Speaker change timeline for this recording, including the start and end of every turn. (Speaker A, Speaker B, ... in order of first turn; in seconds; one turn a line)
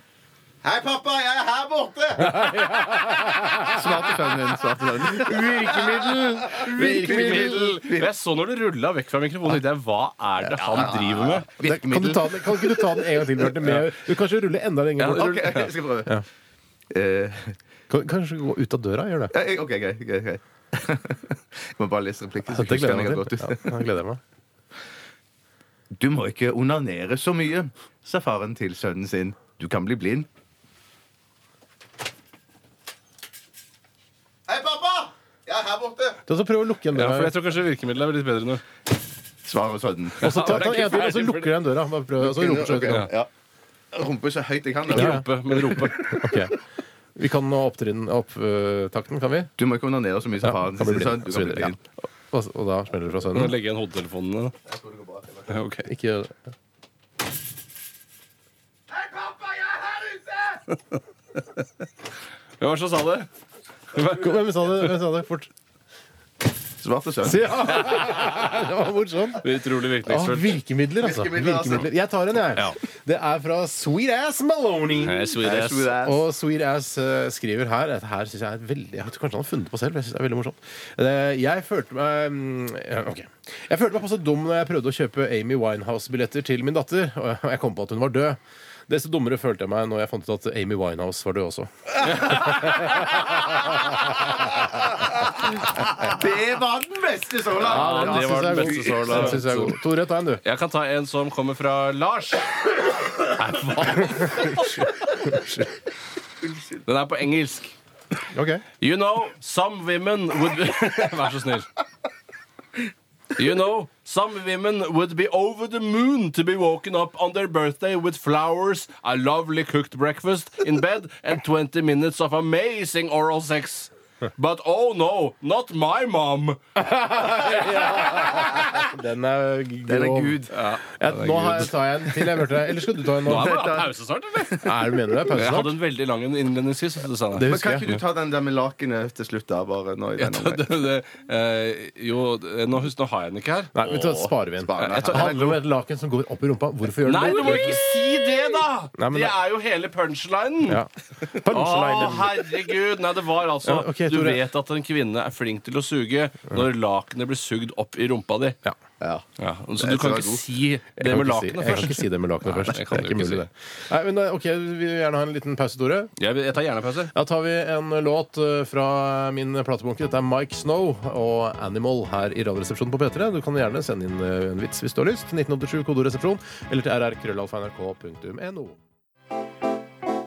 Speaker A: 0.6-8.1
Speaker B: 2.4-4.5
Speaker B: 5.0-7.7
Speaker C: 5.3-11.5
Speaker A: 10.4-13.9
Speaker B: 11.6-16.2
Speaker A: 15.0-16.2
Speaker A: 16.9-17.6
Speaker B: 17.9-19.3
Speaker A: 19.3-23.8
Speaker B: 22.4-24.2
Speaker A: 26.0-30.3
Speaker A: 34.5-36.2
Speaker B: 36.3-37.3
Speaker C: 36.9-38.6
Speaker A: 39.4-40.8
Speaker B: 40.2-43.1
Speaker C: 40.2-41.6
Speaker A: 42.2-43.3
Speaker A: 43.9-46.2
Speaker C: 44.9-46.4
Speaker B: 44.9-46.5
Speaker B: 47.1-49.5
Speaker A: 49.6-51.8
Speaker B: 50.4-53.5
Speaker C: 53.3-54.5
Speaker A: 54.6-55.5
Speaker C: 55.5-55.9
Speaker B: 55.8-56.3
Speaker A: 59.0-60.6
Speaker C: 62.6-63.3
Speaker C: 63.9-64.9
Speaker B: 64.0-65.5
Speaker A: 66.8-68.0
Speaker B: 67.2-75.4
Speaker C: 69.4-70.6
Speaker A: 71.0-71.9
Speaker C: 75.0-75.9
Speaker A: 75.4-76.2
Speaker B: 76.0-94.1
Speaker A: 95.0-99.4
Speaker C: 97.6-99.8
Speaker B: 97.6-100.4
Speaker C: 100.4-105.2
Speaker B: 105.3-105.6
Speaker C: 106.8-107.7
Speaker B: 108.3-108.6
Speaker C: 108.8-111.7
Speaker C: 113.3-126.6
Speaker B: 126.8-133.7
Speaker A: 129.9-130.5
Speaker C: 130.5-131.8
Speaker A: 133.2-135.2
Speaker C: 133.2-134.7
Speaker B: 134.6-135.8
Speaker C: 135.3-138.0
Speaker B: 137.3-137.9
Speaker A: 137.4-140.8
Speaker C: 140.2-143.8
Speaker B: 143.7-147.8
Speaker A: 143.8-145.6
Speaker C: 144.8-145.5
Speaker C: 147.0-150.8
Speaker B: 149.0-149.4
Speaker B: 150.7-152.4
Speaker C: 151.4-158.6
Speaker B: 153.6-154.4
Speaker A: 159.0-159.2
Speaker C: 159.4-163.5
Speaker A: 159.8-160.4
Speaker B: 161.0-166.1
Speaker C: 166.2-167.1
Speaker B: 167.1-178.8